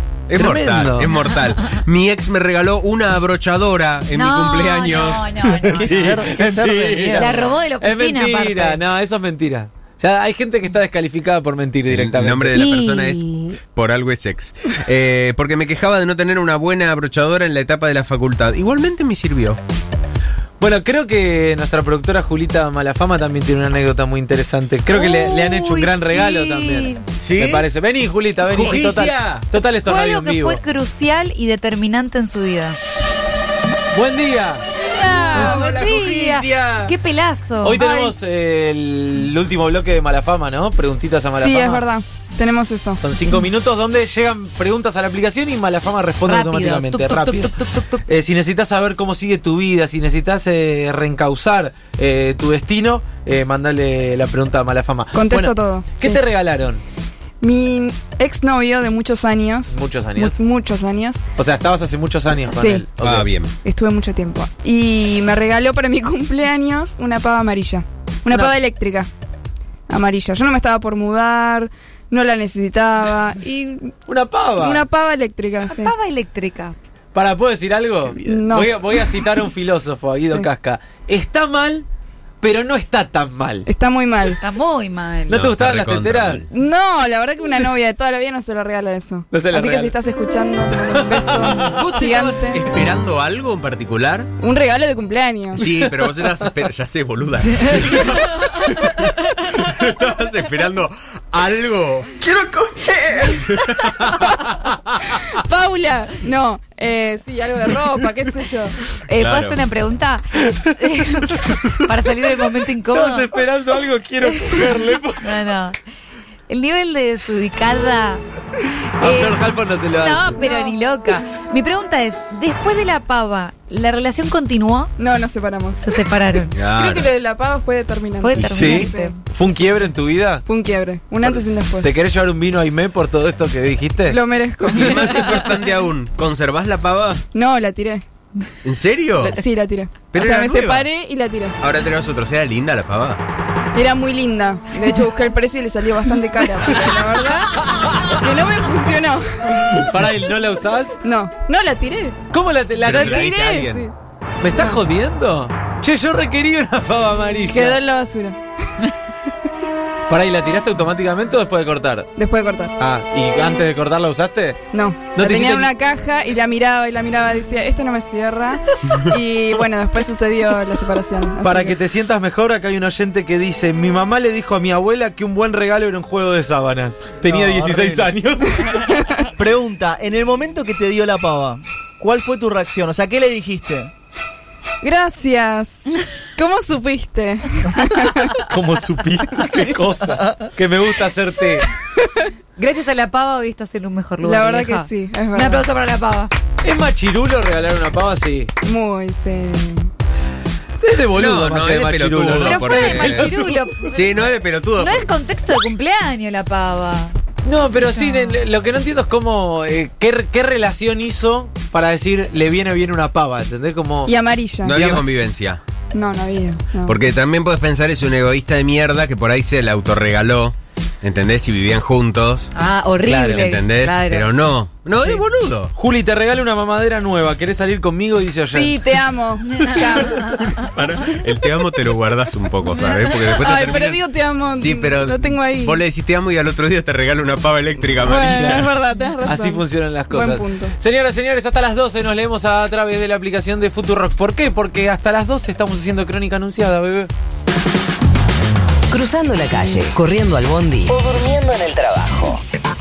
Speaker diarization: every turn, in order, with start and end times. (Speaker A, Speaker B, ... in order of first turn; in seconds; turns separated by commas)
Speaker A: 0.3-5.3, Speaker B: 0.3-1.1, Speaker C: 4.1-6.3, Speaker B: 5.4-12.7, Speaker D: 5.7-7.5, Speaker C: 7.0-8.8, Speaker A: 11.9-19.6, Speaker E: 12.8-13.2, Speaker B: 20.6-30.6, Speaker C: 24.9-27.0, Speaker A: 27.2-27.7, Speaker A: 28.4-29.5, Speaker C: 28.6-28.9, Speaker C: 29.7-32.8, Speaker B: 33.9-34.6, Speaker C: 35.0-37.8, Speaker A: 35.3-36.9, Speaker B: 37.6-41.8, Speaker E: 37.8-38.1, Speaker E: 41.3-43.0, Speaker B: 43.0-56.8, Speaker C: 46.2-48.0, Speaker E: 55.1-56.2, Speaker E: 57.4-61.2, Speaker B: 59.7-60.4, Speaker B: 61.4-63.3, Speaker E: 62.5-62.9, Speaker A: 63.0-63.5, Speaker E: 63.6-69.1, Speaker E: 69.9-74.0, Speaker B: 74.1-74.8, Speaker E: 74.6-75.9, Speaker C: 75.7-76.8, Speaker B: 77.1-81.9, Speaker E: 78.2-79.2, Speaker B: 82.4-83.7, Speaker E: 83.7-84.4, Speaker C: 84.4-85.4, Speaker B: 85.3-86.4, Speaker A: 85.3-86.5, Speaker E: 86.5-92.6, Speaker B: 89.3-89.9, Speaker B: 90.9-91.6, Speaker A: 91.7-94.3, Speaker E: 94.4-95.7, Speaker A: 95.6-98.2, Speaker B: 95.6-96.5, Speaker C: 97.6-98.2, Speaker A: 99.4-104.5, Speaker E: 105.1-108.8, Speaker C: 109.1-113.4, Speaker A: 109.2-109.6, Speaker B: 112.9-115.3, Speaker C: 114.2-115.8, Speaker C: 116.5-118.2, Speaker B: 119.0-120.4, Speaker C: 119.0-124.9, Speaker E: 120.4-120.8, Speaker E: 125.0-125.9, Speaker C: 125.8-126.6, Speaker A: 126.6-127.1, Speaker E: 126.6-129.8, Speaker C: 128.2-129.2, Speaker A: 128.4-128.7, Speaker B: 128.5-130.4, Speaker E: 130.4-131.9, Speaker B: 131.2-134.2, Speaker E: 134.1-135.4, Speaker A: 134.7-137.2, Speaker E: 137.3-138.0, Speaker A: 138.6-139.4, Speaker E: 139.2-141.6, Speaker A: 140.1-140.9, Speaker A: 141.6-143.2, Speaker E: 143.7-149.8, Speaker B: 149.8-151.0, Speaker E: 151.0-152.2, Speaker B: 152.3-153.3, Speaker A: 152.8-153.9, Speaker E: 152.9-153.9, Speaker B: 154.4-157.8, Speaker E: 154.6-154.8, Speaker E: 157.5-158.4, Speaker B: 160.1-162.1, Speaker E: 162.2-162.8, Speaker B: 162.8-164.6, Speaker E: 164.7-171.8, Speaker B: 165.1-165.7, Speaker B: 171.4-178.9, Speaker D: 177.2-178.1, Speaker E: 178.8-179.1, Speaker D: 179.4-183.9, Speaker E: 184.8-188.4, Speaker B: 188.5-191.7, Speaker E: 192.0-192.3, Speaker C: 192.6-196.3, Speaker E: 194.2-195.6, Speaker B: 196.6-198.5, Speaker E: 198.6-199.9, Speaker B: 200.8-204.2, Speaker A: 201.1-205.1, Speaker C: 202.3-204.0, Speaker C: 204.8-208.4, Speaker B: 207.4-214.2, Speaker E: 214.1-214.8, Speaker A: 214.6-215.6, Speaker B: 214.7-215.1, Speaker E: 215.9-217.0, Speaker A: 216.9-222.5, Speaker C: 222.6-224.3, Speaker B: 223.0-223.5, Speaker A: 223.3-225.7, Speaker B: 225.8-228.8, Speaker E: 228.4-230.2, Speaker C: 229.6-230.6, Speaker A: 230.6-234.0, Speaker C: 232.9-233.2, Speaker E: 233.3-235.8, Speaker A: 234.6-238.7, Speaker E: 238.0-240.8, Speaker B: 238.3-238.7, Speaker B: 239.2-247.1, Speaker F: 248.9-252.4